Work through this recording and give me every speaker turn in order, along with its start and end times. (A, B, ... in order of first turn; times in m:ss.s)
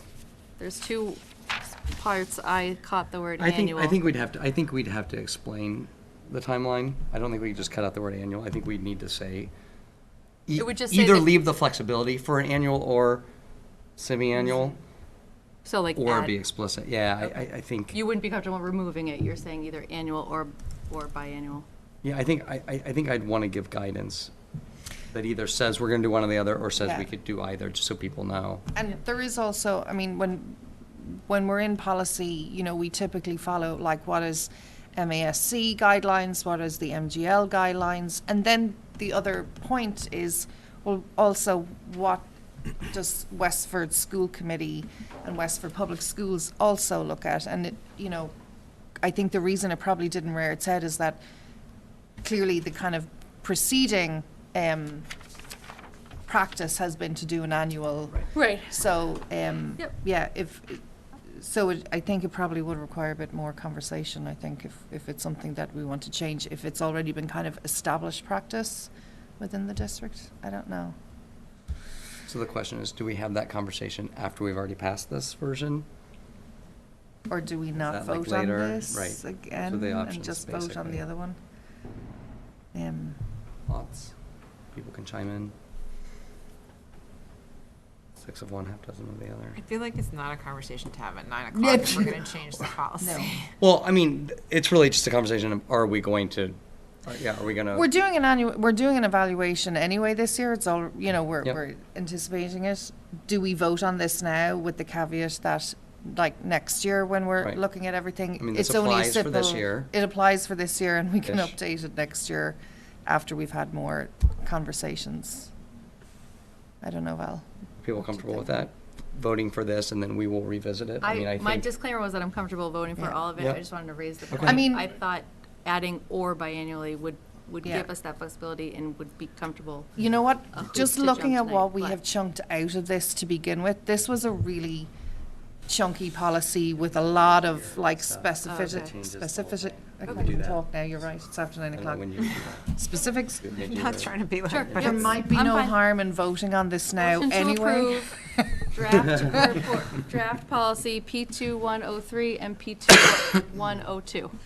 0:00.6-0:04.0 A
0:03.4-0:09.5 B
0:10.5-0:13.2 B
0:10.6-0:11.4 A
0:14.0-0:14.8 B
0:15.6-0:16.3 A
0:15.9-0:18.0 B
0:17.9-0:21.6 A
0:22.0-0:24.3 B
0:25.1-0:28.6 B
0:26.8-0:27.1 C
0:28.7-0:42.3 C
0:42.8-0:48.3 C
0:49.0-0:51.2 C
0:52.2-0:55.1 C
0:56.3-1:11.0 C
0:58.3-0:58.8 A
1:12.3-1:15.8 B
1:17.3-1:21.4 C
1:17.9-1:21.1 B
1:22.7-1:23.2 C
1:23.7-1:24.1 B
1:24.7-1:25.5 B
1:28.2-1:29.6 B
1:29.6-1:33.5 D
1:31.5-1:32.3 C
1:33.0-1:33.4 C
1:33.6-1:37.9 B
1:37.7-1:55.5 C
1:48.4-1:49.9 B
1:51.2-1:51.5 B
1:56.8-1:58.5 C
1:57.8-2:01.7 B
2:01.0-2:09.9 A
2:04.3-2:04.7 B
2:04.4-2:04.9 C
2:10.0-2:14.9 C
2:10.5-2:12.0 A
2:15.6-2:23.6 C
2:16.8-2:20.7 B
2:18.4-2:18.9 A
2:21.7-2:22.8 B
2:23.4-2:25.2 B
2:23.6-2:25.0 D
2:24.5-2:25.8 A
2:24.7-2:29.6 C
2:27.0-2:34.3 A